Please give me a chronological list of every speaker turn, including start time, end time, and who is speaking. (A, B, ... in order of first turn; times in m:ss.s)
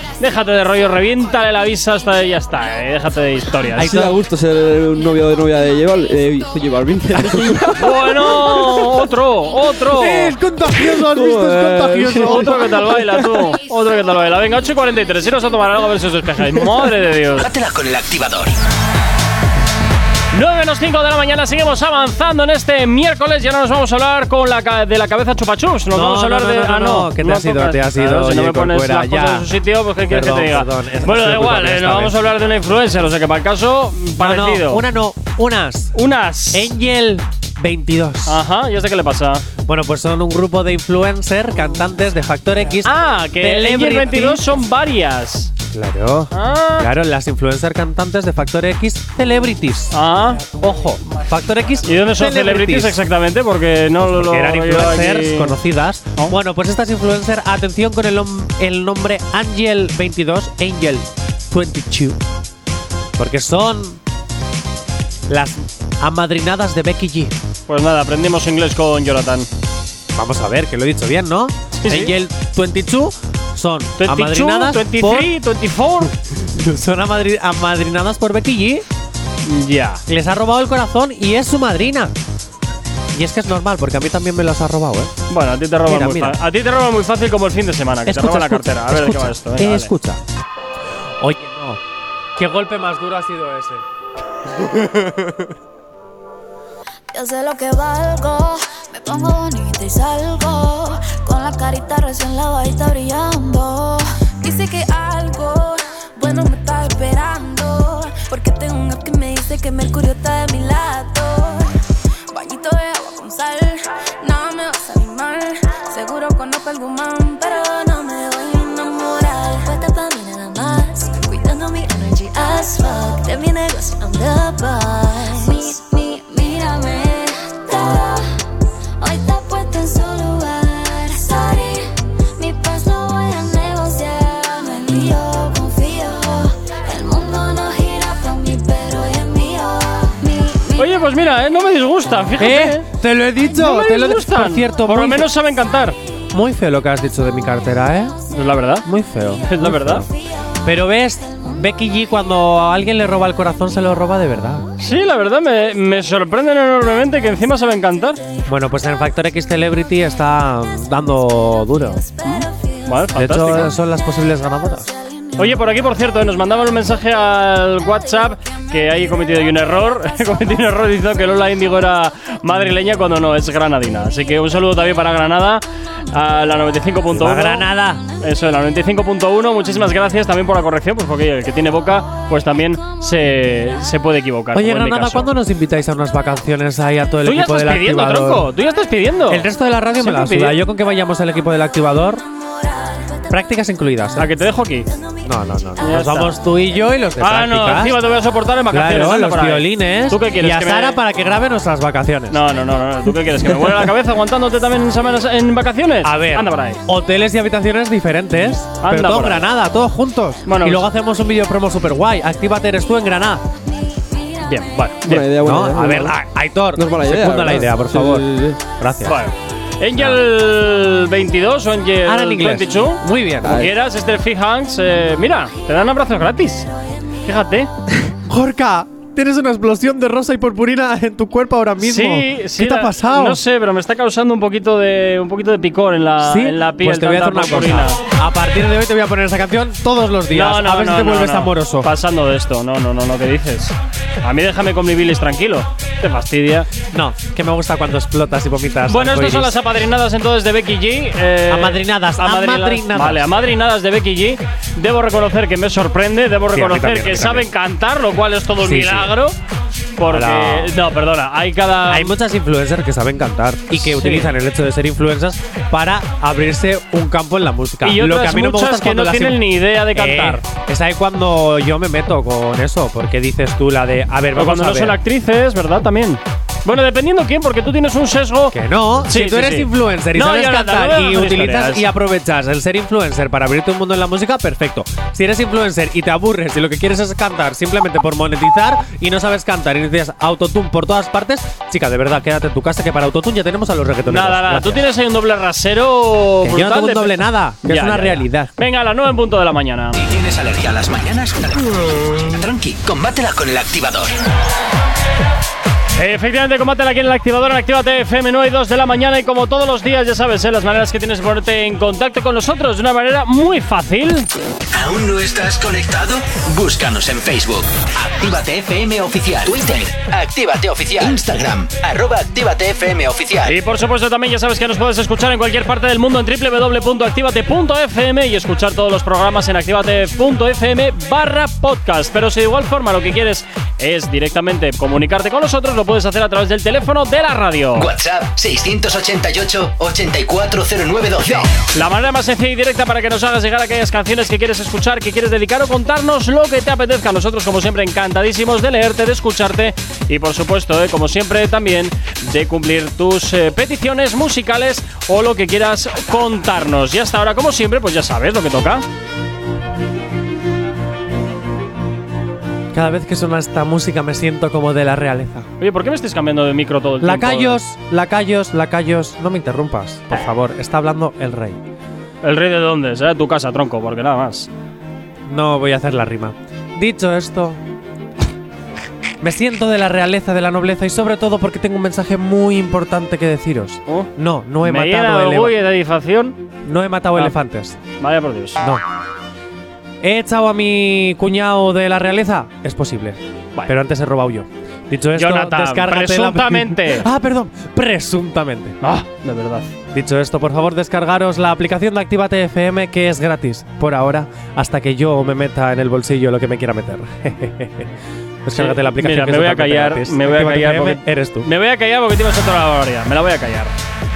0:00.2-0:03.9 A
0:03.8-0:04.2 B
0:03.8-0:08.9 C
0:07.2-0:07.6 B
0:07.8-0:10.4 A
0:09.9-0:12.9 B
0:10.7-0:13.4 C
0:12.2-0:17.5 A
0:17.4-0:18.6 D
0:20.3-0:34.8 A
0:25.9-0:29.5 B
0:30.0-0:32.2 B
0:34.2-0:36.0 B
0:36.0-0:36.7 A
0:36.5-0:38.4 B
0:38.3-0:39.5 A
0:39.7-0:44.4 B
0:42.8-0:45.5 A
0:45.7-0:53.0 B
0:46.3-0:46.9 A
0:49.9-0:50.4 A
0:51.8-0:55.6 A
0:54.0-1:02.2 B
1:03.2-1:04.0 B
1:05.3-1:07.3 B
1:07.7-1:09.5 A
1:10.2-1:15.3 B
1:11.8-1:12.1 A
1:14.0-1:16.1 A
1:16.0-1:18.8 B
1:19.4-1:20.0 A
1:20.1-1:22.1 B
1:23.1-1:25.2 B
1:25.3-1:29.9 A
1:25.9-1:26.4 B
1:28.1-1:30.2 B
1:31.2-1:31.8 B
1:32.4-1:33.8 B
1:34.6-1:35.4 B
1:37.1-1:51.7 E
1:52.3-2:08.4 E
2:09.0-2:20.9 E
2:20.8-2:22.9 A
2:22.4-2:25.3 B
2:23.5-2:26.0 A
2:26.3-2:28.2 B
2:28.3-2:28.9 A
2:28.8-2:30.1 B
2:29.4-2:30.1 A
2:30.6-2:34.7 B
2:34.8-2:38.2 A
2:38.5-2:42.0 B
2:42.2-2:43.7 A
2:43.2-2:44.9 B
2:45.4-2:57.7 A
2:57.1-2:58.0 B
2:58.2-3:05.3 A
3:04.5-3:08.5 B
3:07.2-3:09.5 A
3:09.3-3:12.2 B
3:10.0-3:10.6 A
3:12.4-3:13.3 E
3:13.3-3:14.3 B
3:14.2-3:14.9 A
3:15.2-3:18.0 B
3:15.8-3:16.4 A
3:17.2-3:21.0 A
3:18.7-3:22.4 B
3:22.3-3:26.8 A
3:26.0-3:33.4 B
3:28.8-3:29.5 A
3:30.5-3:30.8 A
3:34.4-3:35.3 A
3:35.0-3:36.2 C
3:35.3-3:39.2 B
3:36.8-3:38.6 C
3:39.0-3:46.7 A
3:40.0-3:40.2 B
3:42.0-3:43.6 B
3:43.4-3:43.7 C
3:47.2-3:47.7 A
3:48.3-3:53.4 B
3:51.8-3:58.0 A
3:56.2-4:01.9 B
4:00.3-4:06.7 A
4:06.9-4:09.6 B
4:08.9-4:19.4 A
4:11.5-4:13.3 B
4:16.5-4:17.5 B
4:18.6-4:19.1 B
4:20.0-4:22.2 A
4:20.1-4:20.8 B
4:21.9-4:29.4 B
4:23.7-4:24.3 A
4:27.8-4:30.4 A
4:29.9-4:35.0 B
4:34.4-4:41.9 A
4:38.5-4:54.8 B
4:54.1-5:00.0 A
4:56.4-4:58.5 B
5:00.0-5:04.2 D
5:06.0-5:14.3 A
5:14.7-5:23.6 D
5:23.5-5:37.9 A
5:37.8-5:41.6 D
5:41.7-5:58.9 A
6:02.7-6:05.5 B
6:05.6-6:07.6 A
6:07.0-6:11.6 B
6:12.2-6:14.5 A
6:15.3-6:17.6 B
6:19.2-6:25.6 B
6:24.6-6:26.4 A
6:26.6-6:27.8 B
6:28.0-6:28.6 A
6:28.6-6:28.8 B
6:30.0-6:38.8 B
6:35.2-6:37.1 A
6:38.8-6:39.7 A
6:39.9-6:47.9 B
6:48.4-6:51.5 B
6:48.6-6:53.8 A